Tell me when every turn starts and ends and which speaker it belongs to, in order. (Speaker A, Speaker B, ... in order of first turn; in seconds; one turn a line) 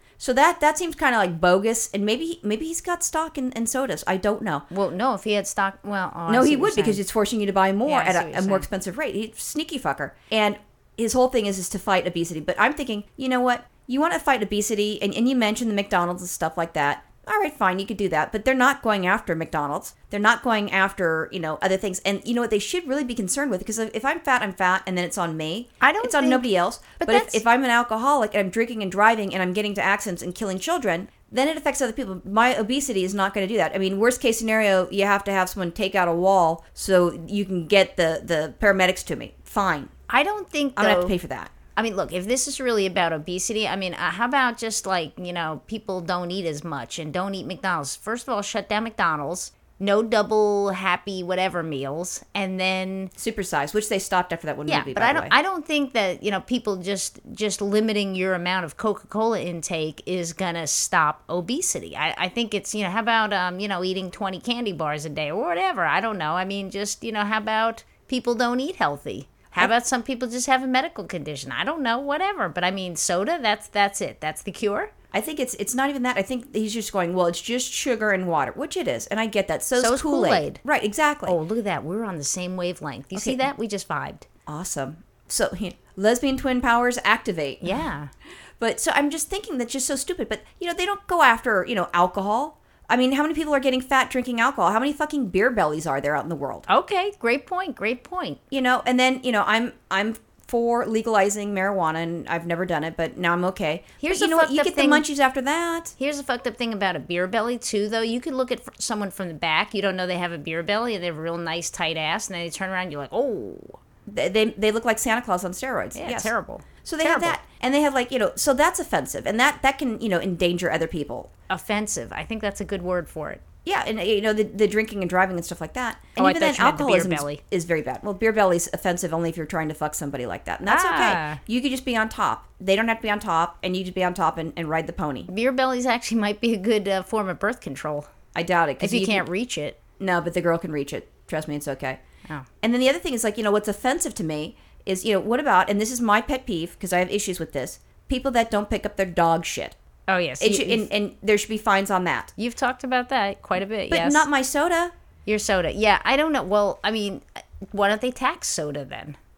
Speaker A: 0.2-4.7
Speaker B: 4.7-7.0
Speaker A: 6.3-39.9
Speaker B: 7.8-8.7
Speaker B: 25.8-26.4
Speaker B: 27.0-27.4
Speaker B: 40.1-41.1
Speaker A: 40.8-41.5
Speaker B: 41.8-53.1
Speaker A: 53.2-55.4
Speaker B: 54.7-74.9
Speaker A: 75.1-81.4
Speaker B: 79.8-80.6
Speaker B: 81.3-84.3
Speaker A: 83.1-83.5
Speaker A: 84.5-87.9
Speaker B: 87.6-88.1
Speaker A: 88.6-96.7
Speaker B: 96.7-98.4
Speaker A: 98.5-105.9
Speaker B: 104.0-105.1
Speaker B: 106.0-113.8
Speaker A: 114.1-116.3
Speaker B: 116.0-117.4
Speaker A: 116.8-121.3
Speaker B: 121.5-123.4
Speaker A: 123.7-135.3
Speaker B: 126.2-127.4
Speaker B: 130.7-131.4
Speaker B: 135.3-138.1
Speaker A: 138.3-139.3
Speaker B: 138.8-139.8
Speaker A: 140.0-142.0
Speaker A: 142.6-149.8
Speaker B: 150.1-150.9
Speaker A: 150.4-152.3
Speaker B: 152.4-154.3
Speaker A: 153.9-154.9
Speaker B: 155.3-159.2